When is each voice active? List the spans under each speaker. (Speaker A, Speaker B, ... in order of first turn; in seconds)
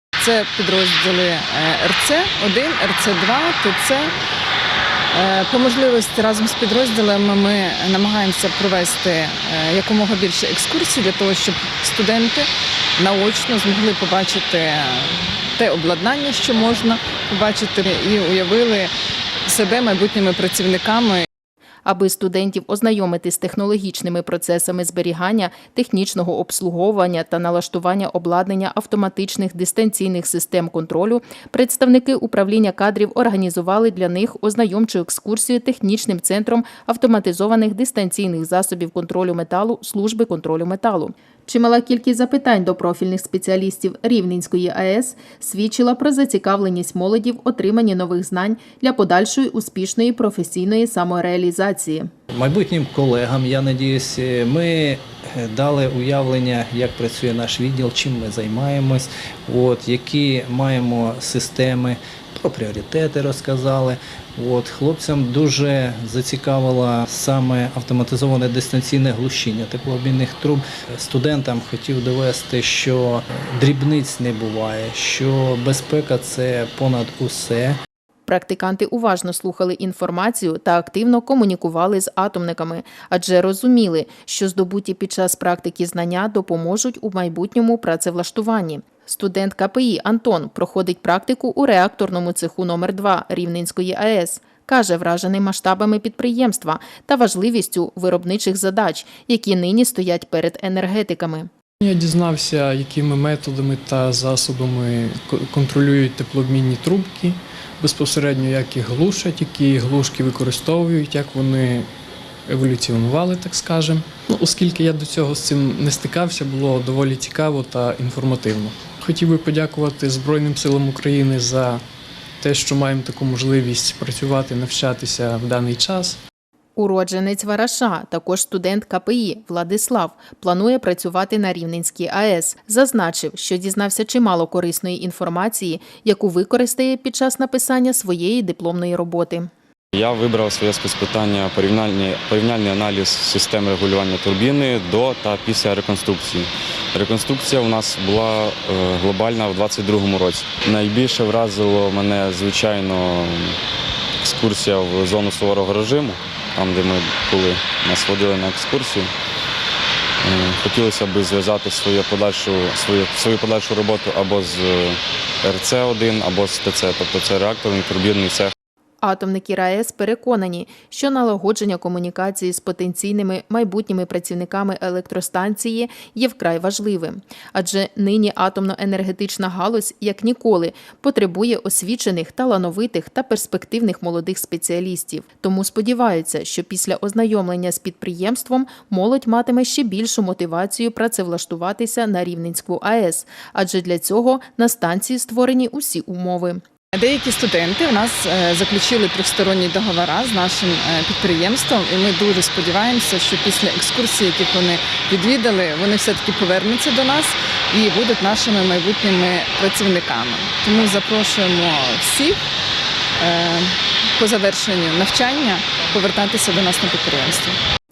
Speaker A: 0.2-4.1, 5.1-18.9, 19.4-21.2, 196.9-212.4, 213.2-217.6
Speaker B: 21.9-52.1, 78.3-101.5, 126.8-139.5, 169.0-196.6
Speaker C: 52.3-77.8
Speaker D: 101.8-111.9, 112.5-121.8, 122.4-126.2
Speaker E: 139.9-153.6, 154.2-159.1, 160.2-168.5